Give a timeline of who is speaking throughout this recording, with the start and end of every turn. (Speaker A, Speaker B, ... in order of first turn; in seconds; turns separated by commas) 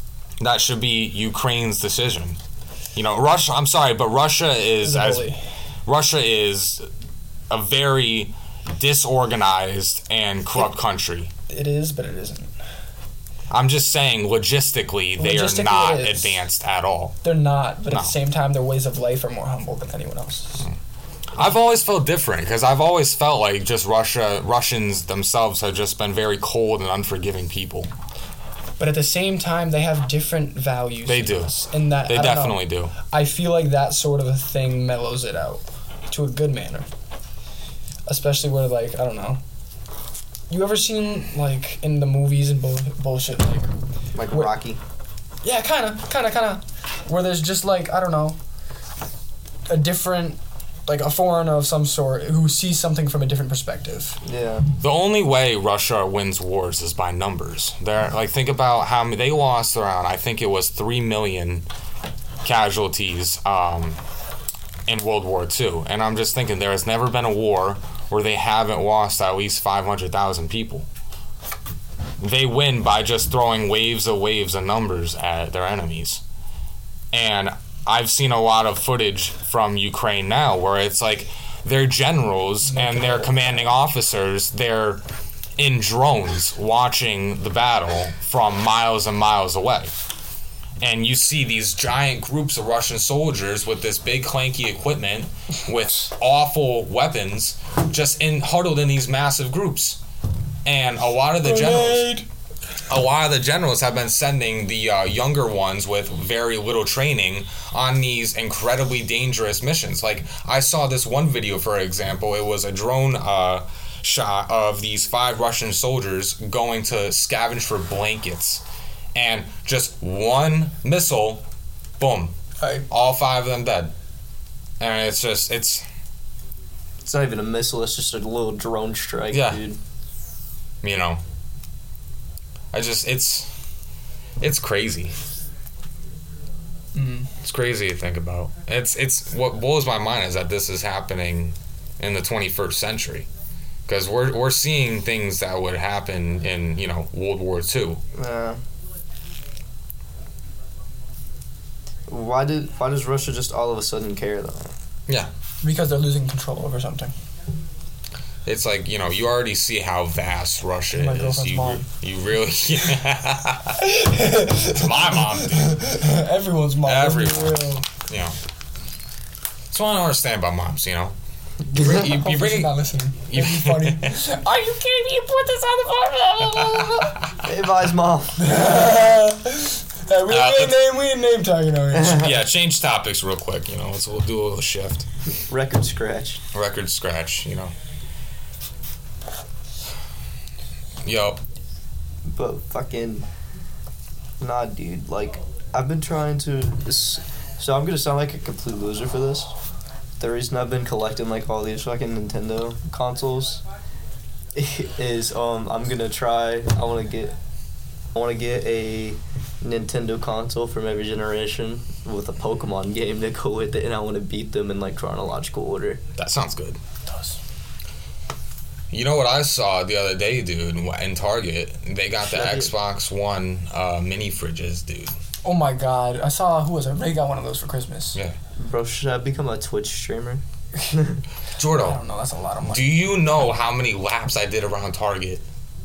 Speaker A: 0.4-2.4, Speaker A: 2.9-5.3, Speaker B: 4.8-5.4, Speaker A: 5.8-6.9, Speaker A: 7.5-11.3, Speaker B: 11.5-12.5, Speaker A: 13.5-17.2, Speaker B: 15.2-16.4, Speaker B: 17.2-20.7, Speaker A: 21.3-27.9, Speaker B: 28.8-36.9, Speaker A: 31.1-32.9, Speaker B: 38.1-39.4, Speaker B: 40.5-43.7, Speaker C: 44.1-44.8, Speaker B: 45.4-48.4, Speaker B: 49.7-54.2, Speaker C: 54.2-54.6, Speaker A: 54.8-61.6, Speaker A: 62.4-64.0, Speaker A: 64.9-70.9, Speaker A: 72.2-76.2, Speaker A: 77.1-85.0, Speaker B: 82.7-83.7, Speaker A: 85.6-89.9, Speaker A: 90.8-100.0, Speaker A: 100.7-102.2, Speaker B: 101.4-102.2, Speaker A: 102.9-118.6, Speaker A: 119.1-121.4, Speaker A: 122.0-122.3, Speaker B: 122.6-122.8, Speaker A: 122.9-123.9, Speaker A: 124.8-125.8, Speaker C: 127.0-129.8, Speaker A: 129.3-129.6, Speaker A: 130.8-131.2, Speaker A: 132.7-133.5, Speaker A: 134.4-135.2, Speaker B: 136.9-137.3, Speaker A: 137.4-143.3, Speaker A: 143.8-148.0, Speaker C: 148.1-148.6, Speaker C: 152.1-154.7, Speaker B: 155.6-157.1, Speaker A: 158.4-163.8, Speaker B: 160.9-161.8, Speaker B: 163.8-167.8, Speaker A: 164.7-165.8, Speaker A: 166.8-168.3, Speaker A: 169.7-171.1, Speaker B: 171.7-177.2, Speaker A: 171.7-172.7, Speaker A: 173.3-174.2, Speaker A: 176.6-177.1, Speaker C: 177.4-178.4, Speaker B: 178.4-182.3, Speaker A: 180.3-180.8, Speaker C: 181.9-182.3, Speaker A: 182.1-185.1, Speaker C: 185.5-186.4, Speaker A: 186.5-187.7, Speaker A: 191.0-191.4, Speaker C: 192.3-193.2, Speaker C: 194.4-199.5, Speaker C: 200.2-203.6, Speaker C: 204.5-207.3, Speaker C: 208.1-216.0, Speaker A: 216.2-216.8, Speaker B: 217.1-217.4, Speaker A: 218.9-225.2, Speaker C: 222.2-222.7, Speaker B: 225.4-228.2, Speaker C: 228.6-231.2, Speaker A: 231.6-232.0, Speaker B: 231.7-232.9, Speaker A: 232.7-235.4